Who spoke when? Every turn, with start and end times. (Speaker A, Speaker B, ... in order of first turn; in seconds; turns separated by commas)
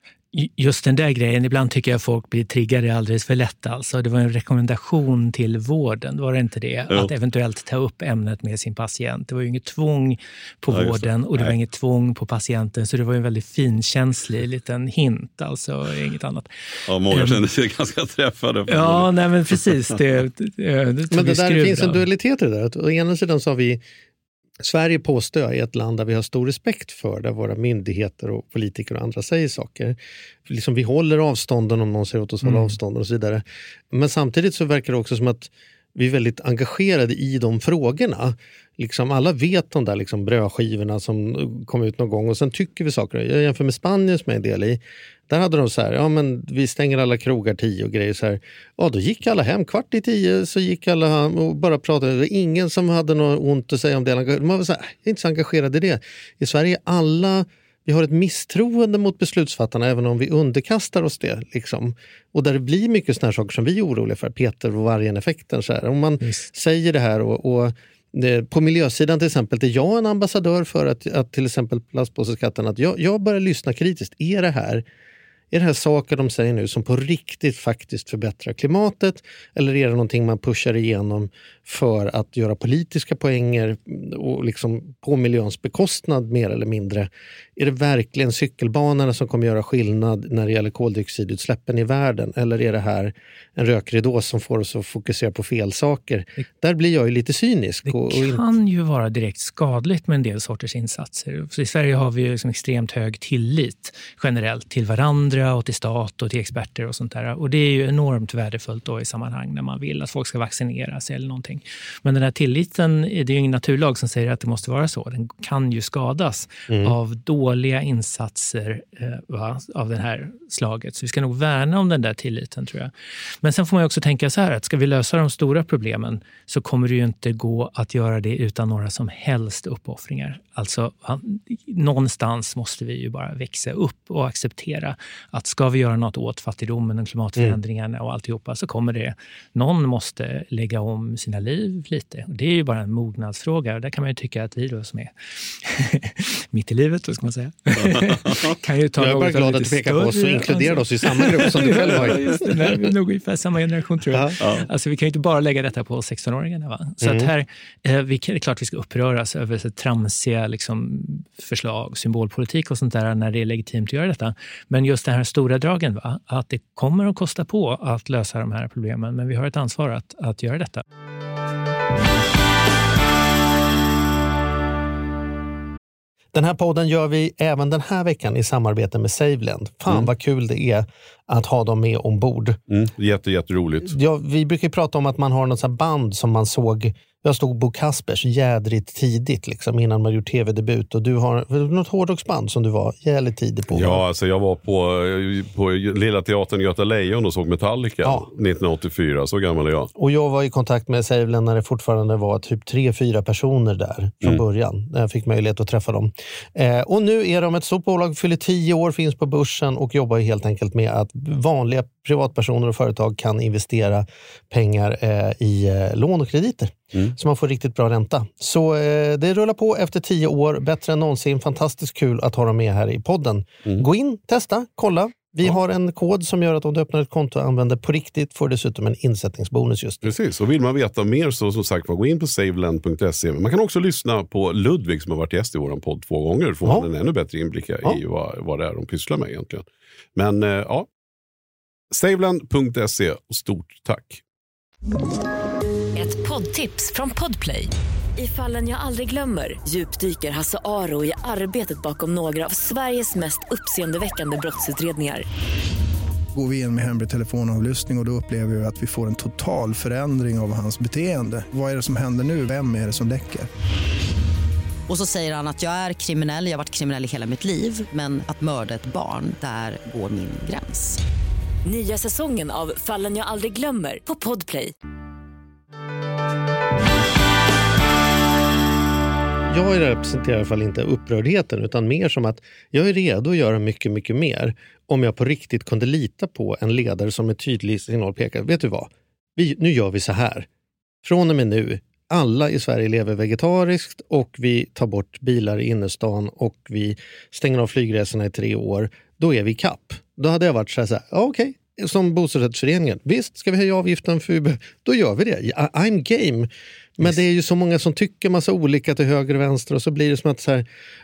Speaker A: 0.3-16.5, Speaker B: 10.7-11.6, Speaker B: 16.9-19.6, Speaker A: 17.1-17.4, Speaker A: 18.7-22.0, Speaker C: 21.1-23.8, Speaker C: 24.6-74.8, Speaker A: 32.4-32.8, Speaker A: 66.2-66.5, Speaker C: 75.5-98.4, Speaker A: 97.9-122.9, Speaker C: 116.7-116.9, Speaker A: 123.4-170.8, Speaker B: 147.8-148.6, Speaker C: 149.0-152.5, Speaker B: 154.4-154.7, Speaker C: 157.0-157.3, Speaker C: 176.3-182.6, Speaker B: 182.7-184.0, Speaker C: 183.8-194.0, Speaker B: 193.7-199.9, Speaker C: 200.0-230.1, Speaker B: 230.0-240.9, Speaker B: 241.9-244.2, Speaker D: 245.9-255.3, Speaker E: 256.3-263.5, Speaker F: 264.9-271.0, Speaker D: 271.6-274.7, Speaker C: 279.5-290.5, Speaker C: 291.0-310.6